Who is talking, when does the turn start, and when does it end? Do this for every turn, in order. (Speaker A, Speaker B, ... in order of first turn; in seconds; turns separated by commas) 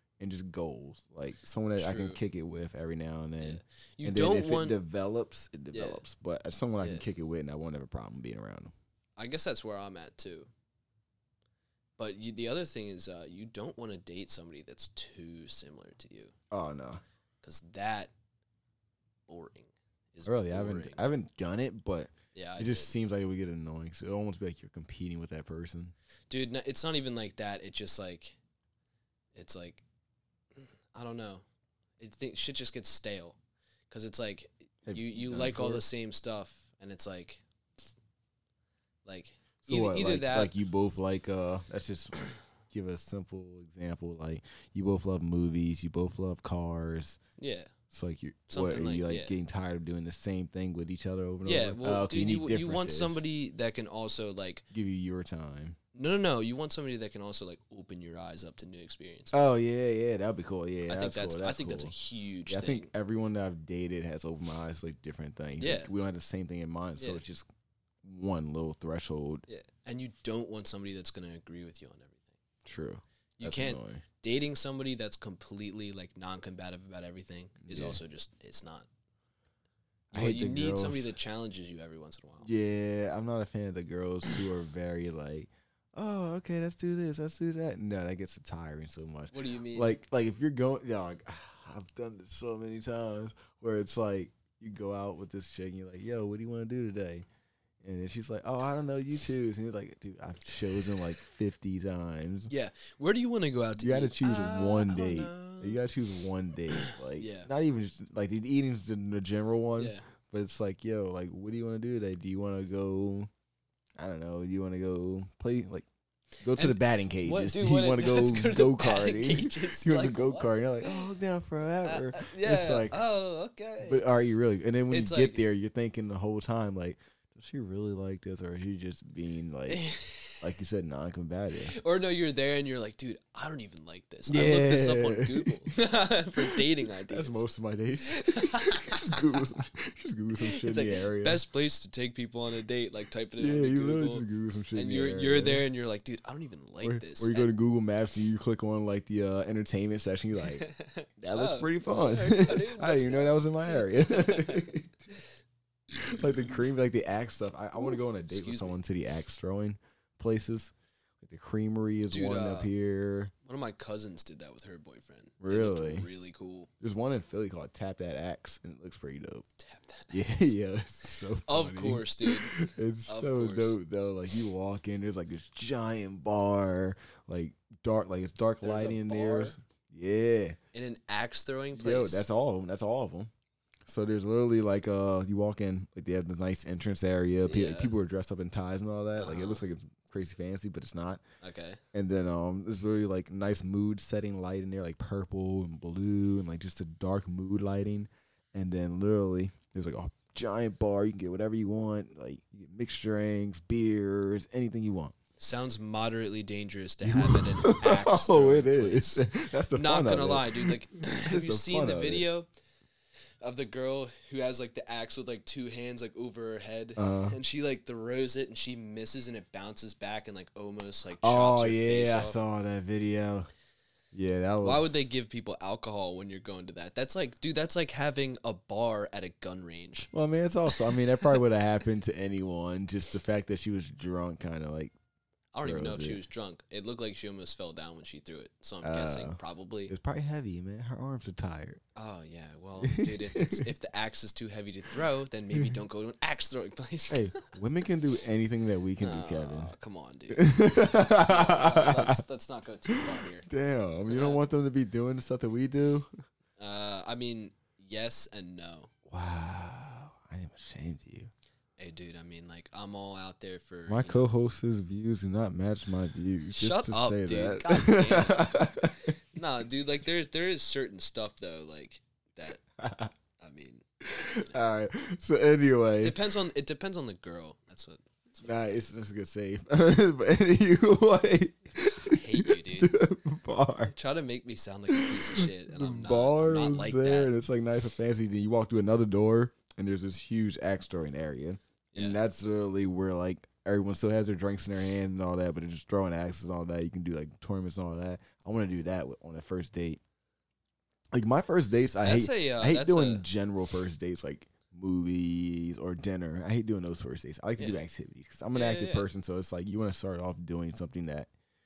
Speaker A: 0.2-8.7, Speaker B: 1.8-2.2, Speaker B: 3.4-4.8, Speaker B: 5.7-6.0, Speaker B: 6.8-7.0, Speaker B: 9.2-10.5, Speaker B: 12.0-16.3, Speaker A: 16.5-17.0, Speaker B: 17.4-18.1, Speaker B: 19.3-21.1, Speaker A: 20.2-25.9, Speaker B: 22.4-22.9, Speaker B: 26.3-28.4, Speaker B: 29.3-29.8, Speaker B: 30.6-31.4, Speaker B: 32.0-33.4, Speaker B: 33.9-37.4, Speaker A: 34.9-35.9, Speaker B: 39.0-40.5, Speaker A: 39.6-47.2, Speaker B: 47.4-47.7, Speaker A: 47.9-53.2, Speaker B: 48.5-49.4, Speaker B: 51.4-54.6, Speaker A: 54.7-55.8, Speaker B: 56.0-59.5, Speaker A: 59.3-67.5, Speaker B: 60.9-62.9, Speaker B: 65.6-65.9, Speaker B: 67.0-67.2, Speaker A: 68.0-69.5, Speaker B: 69.5-72.3, Speaker A: 72.7-74.0, Speaker B: 73.4-78.9, Speaker A: 77.6-78.0, Speaker A: 80.1-81.2, Speaker B: 80.1-82.5, Speaker A: 82.4-97.3, Speaker B: 89.3-90.0, Speaker A: 97.8-102.5, Speaker B: 102.5-105.8, Speaker A: 103.8-113.3, Speaker B: 106.7-107.5, Speaker B: 109.8-110.1, Speaker A: 114.0-115.9, Speaker A: 116.4-123.0, Speaker B: 116.5-121.1, Speaker B: 121.8-124.1, Speaker A: 123.8-131.7, Speaker B: 124.9-125.4, Speaker B: 129.7-130.5, Speaker B: 131.7-137.4, Speaker A: 134.3-135.7, Speaker A: 136.4-141.4, Speaker B: 138.1-139.4, Speaker B: 140.3-147.5, Speaker A: 143.4-145.7, Speaker A: 146.8-150.7, Speaker B: 150.6-155.2, Speaker A: 151.2-154.9, Speaker A: 156.1-163.3, Speaker B: 158.3-158.8, Speaker B: 162.1-162.7, Speaker B: 163.5-166.7, Speaker A: 165.4-166.1, Speaker A: 166.8-169.5, Speaker B: 169.6-170.5, Speaker A: 170.1-180.6, Speaker B: 171.4-173.8, Speaker B: 178.6-179.6, Speaker B: 180.7-182.3, Speaker A: 181.7-183.3, Speaker A: 183.9-191.2, Speaker B: 187.4-187.9, Speaker B: 189.2-189.6, Speaker B: 191.4-191.8, Speaker A: 191.9-205.2, Speaker B: 205.4-212.5, Speaker A: 207.0-212.3, Speaker B: 213.4-222.4, Speaker A: 217.0-217.4, Speaker A: 221.2-223.5, Speaker A: 224.1-224.9, Speaker B: 224.6-230.1, Speaker A: 230.1-234.9, Speaker B: 235.5-239.9, Speaker A: 235.6-236.2, Speaker A: 238.8-241.8, Speaker B: 241.9-247.4, Speaker A: 242.8-243.7, Speaker A: 247.1-249.7, Speaker B: 249.0-253.5, Speaker A: 250.3-252.2, Speaker A: 253.5-256.1, Speaker B: 254.1-254.4, Speaker B: 256.6-258.9, Speaker A: 259.1-261.3, Speaker B: 261.8-264.3, Speaker A: 263.9-269.1, Speaker B: 266.5-268.7, Speaker B: 269.3-272.6, Speaker A: 272.8-273.1, Speaker B: 273.4-273.8, Speaker A: 274.0-276.2, Speaker B: 276.0-278.5, Speaker A: 278.4-283.9, Speaker B: 281.8-282.9, Speaker B: 283.9-287.3, Speaker A: 284.9-300.0, Speaker A: 301.1-311.3, Speaker B: 302.0-303.2, Speaker B: 307.6-307.8, Speaker B: 308.5-309.1